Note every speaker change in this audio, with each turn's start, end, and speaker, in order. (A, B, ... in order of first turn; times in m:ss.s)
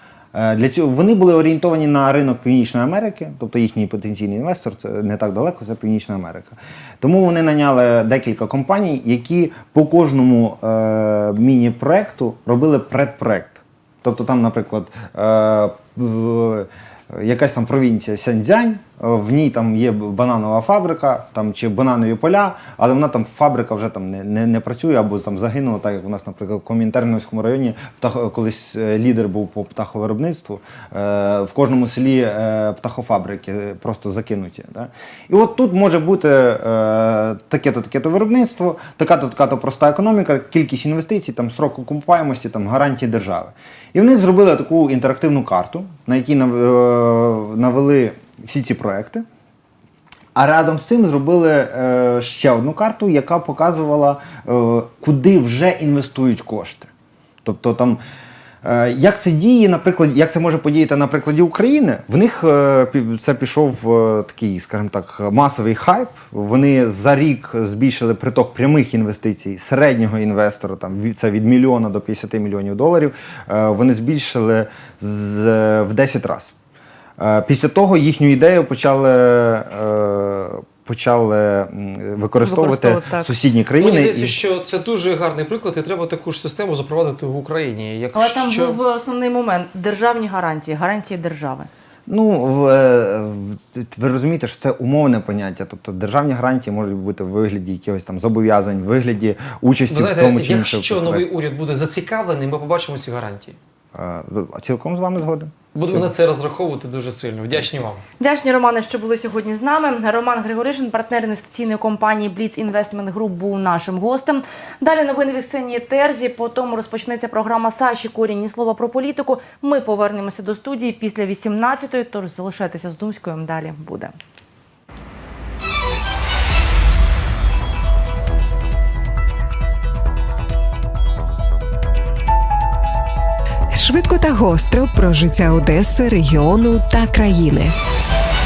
0:00.3-0:49.2 A
0:50.4-0:56.9 A
0:57.4-0:58.0 A
0:58.6-1:16.5 A
1:17.2-1:24.4 A
1:22.4-1:23.3 B
1:23.8-1:28.8 C
1:28.1-1:31.7 B
1:32.1-1:41.2 A
1:39.9-1:43.6 C
1:43.9-1:46.1 A
1:45.7-1:48.0 C
1:48.2-2:04.1 B
2:13.7-2:17.8 D